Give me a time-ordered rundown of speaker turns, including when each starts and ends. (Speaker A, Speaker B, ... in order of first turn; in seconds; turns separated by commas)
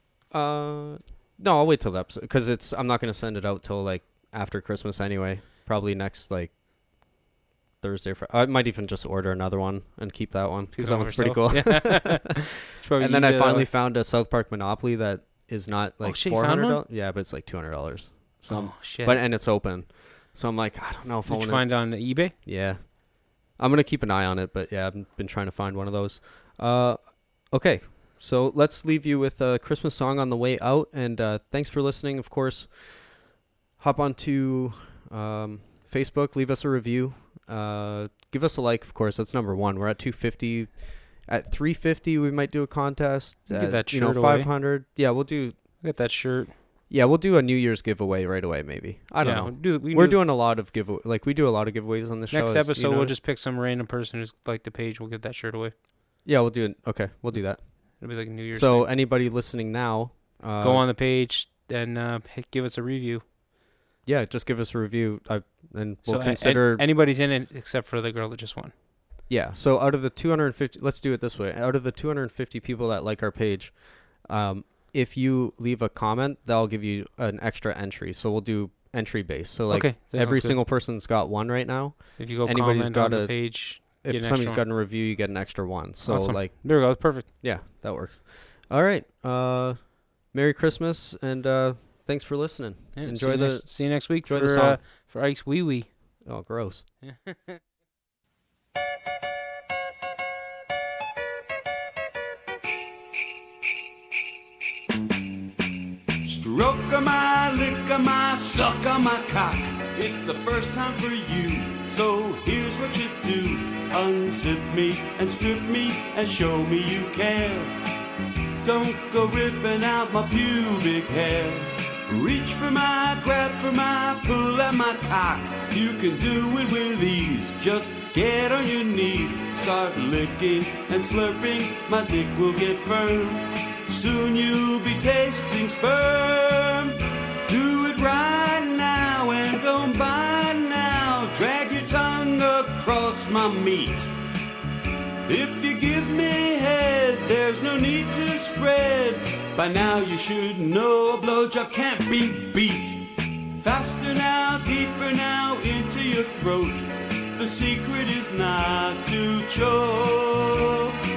Speaker A: 0.3-6.5, Speaker A: 7.8-12.3, Speaker B: 10.7-13.7, Speaker A: 12.9-33.3, Speaker B: 16.0-16.8, Speaker B: 18.4-19.2, Speaker B: 21.2-22.3, Speaker A: 33.8-45.6, Speaker B: 43.5-44.5, Speaker B: 45.8-46.5, Speaker A: 46.9-53.1, Speaker B: 49.2-50.2, Speaker B: 52.3-55.7, Speaker A: 56.2-60.9, Speaker B: 58.0-58.9, Speaker B: 60.6-63.2, Speaker A: 64.0-66.8, Speaker B: 66.0-68.7, Speaker A: 69.3-94.8, Speaker B: 79.7-80.6, Speaker B: 82.2-84.6, Speaker B: 86.0-87.3, Speaker B: 93.0-96.0, Speaker A: 96.2-96.8, Speaker B: 97.0-97.6, Speaker C: 106.2-117.7, Speaker C: 118.6-144.1, Speaker C: 145.2-160.9